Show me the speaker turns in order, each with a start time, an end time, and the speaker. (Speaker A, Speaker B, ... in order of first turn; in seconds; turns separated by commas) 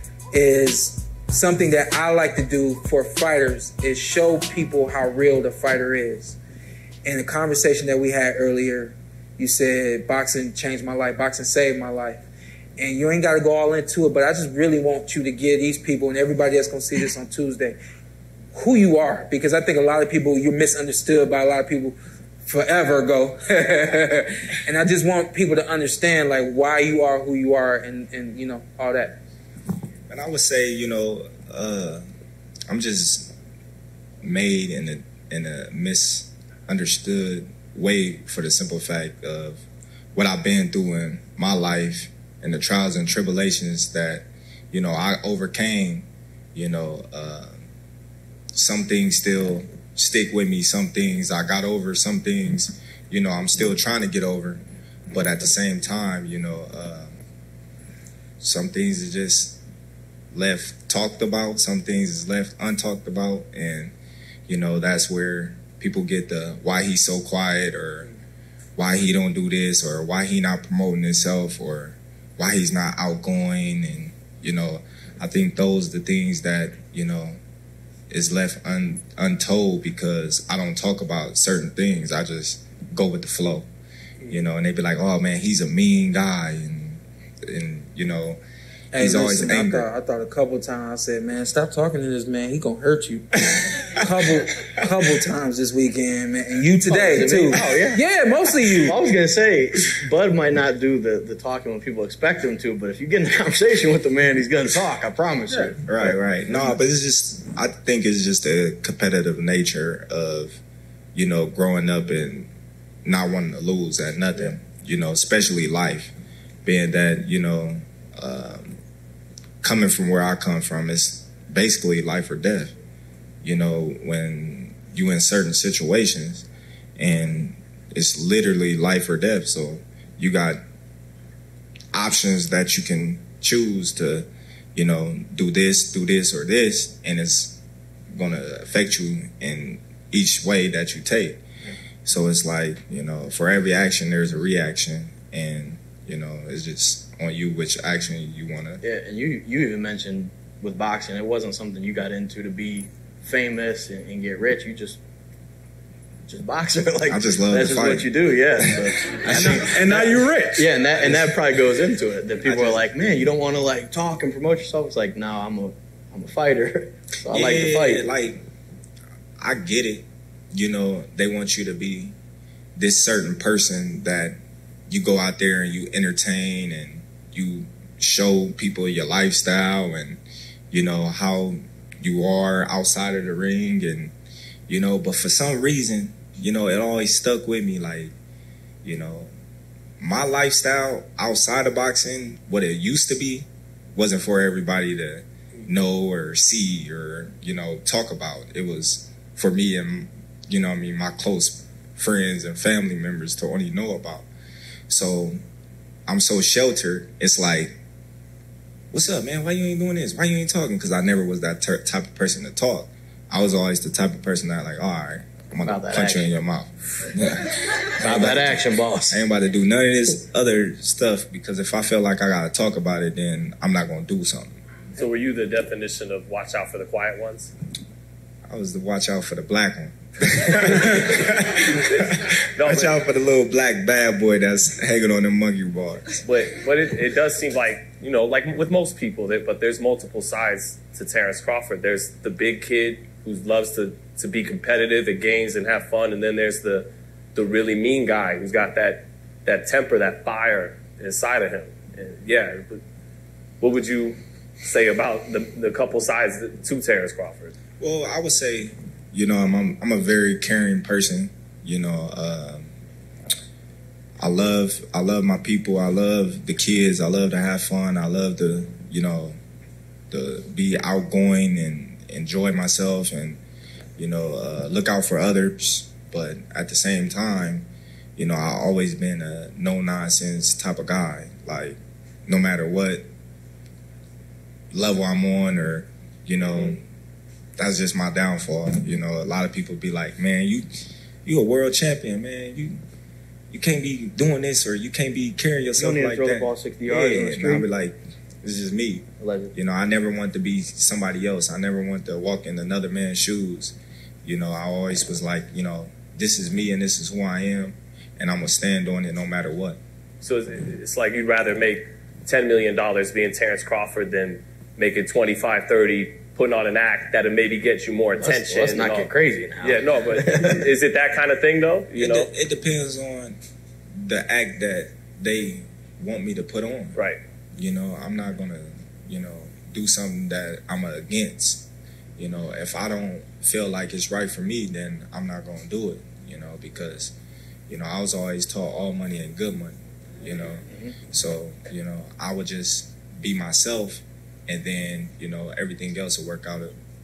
Speaker A: 0.3-6.4, Speaker A: 7.0-12.2, Speaker A: 12.8-17.8, Speaker A: 18.5-29.2, Speaker B: 30.1-32.0, Speaker B: 32.7-33.3, Speaker B: 34.2-47.6, Speaker B: 48.5-57.2, Speaker B: 58.4-59.6, Speaker B: 60.3-64.0, Speaker B: 64.5-68.1, Speaker B: 68.8-77.4, Speaker B: 78.1-83.7, Speaker B: 84.3-88.4, Speaker A: 88.9-99.0, Speaker B: 89.0-89.9, Speaker C: 96.9-98.0, Speaker C: 98.8-106.8, Speaker B: 105.8-110.6, Speaker B: 111.1-112.5, Speaker B: 113.0-116.1, Speaker B: 116.7-118.8, Speaker B: 119.6-122.8, Speaker B: 123.4-126.5, Speaker B: 127.0-130.6, Speaker B: 131.9-137.6, Speaker B: 138.1-141.4, Speaker B: 142.1-148.8, Speaker C: 148.8-155.0, Speaker C: 156.3-168.1, Speaker B: 157.1-160.2, Speaker B: 167.3-168.4, Speaker B: 169.4-172.2, Speaker B: 172.8-174.4, Speaker B: 174.9-184.1, Speaker B: 184.7-188.1, Speaker B: 188.8-189.3, Speaker B: 190.0-204.3, Speaker B: 204.9-205.4, Speaker B: 206.1-207.8, Speaker B: 208.9-224.6, Speaker C: 215.7-216.3, Speaker C: 218.0-219.2, Speaker D: 225.0-227.5, Speaker B: 228.4-236.2, Speaker D: 231.8-233.0, Speaker D: 236.2-252.8, Speaker D: 253.6-257.5, Speaker B: 257.8-262.7, Speaker B: 264.2-269.4, Speaker B: 270.1-273.4, Speaker B: 274.0-283.1, Speaker B: 284.7-286.8, Speaker B: 287.6-290.7, Speaker B: 291.2-292.8, Speaker B: 293.5-309.8, Speaker C: 295.8-297.7, Speaker C: 299.2-299.5, Speaker D: 310.2-322.3, Speaker C: 318.2-320.7, Speaker B: 321.9-323.4, Speaker B: 324.0-327.0, Speaker B: 327.6-331.7, Speaker B: 332.2-337.1, Speaker B: 337.7-346.8